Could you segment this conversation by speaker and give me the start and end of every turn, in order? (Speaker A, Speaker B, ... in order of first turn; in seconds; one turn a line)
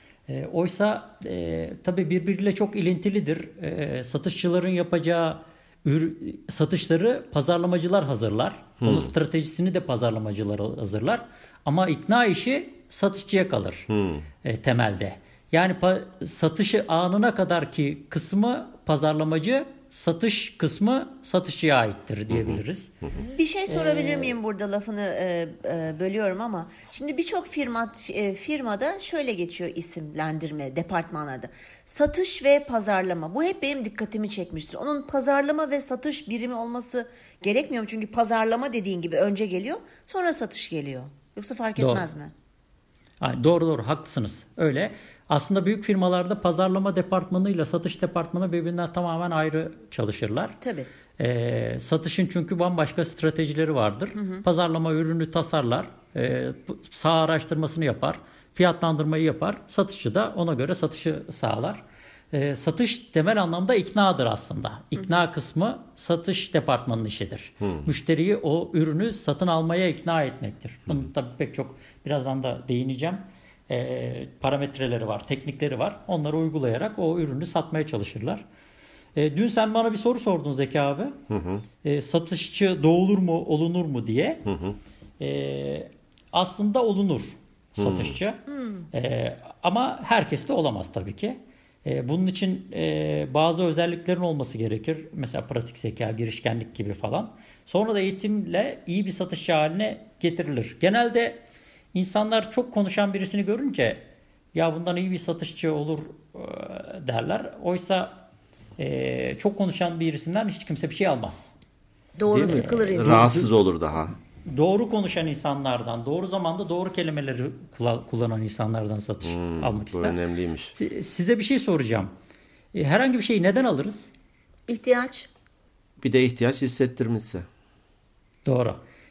Speaker A: 0.3-13.9
Speaker B: 8.8-9.1
Speaker B: 13.9-14.3
Speaker A: 14.4-22.9
Speaker B: 22.3-23.1
Speaker C: 23.2-42.3
Speaker A: 23.7-24.4
Speaker A: 41.8-42.0
Speaker A: 43.2-50.6
Speaker C: 50.6-50.9
Speaker A: 51.2-78.4
Speaker C: 54.1-54.4
Speaker B: 67.6-67.9
Speaker A: 79.1-81.2
Speaker B: 81.3-81.6
Speaker A: 81.8-84.5
Speaker B: 84.5-84.8
Speaker A: 85.2-88.4
Speaker B: 87.8-88.2
Speaker C: 88.6-88.9
Speaker A: 88.9-101.4
Speaker A: 101.9-108.2
Speaker A: 108.8-111.5
Speaker C: 112.2-113.4
Speaker B: 112.3-114.1
Speaker A: 112.4-113.5
Speaker A: 114.4-120.2
Speaker B: 119.2-120.7
Speaker A: 120.7-122.1
Speaker A: 122.7-124.1
Speaker C: 124.7-125.3
Speaker B: 126.0-127.5
Speaker A: 128.4-128.8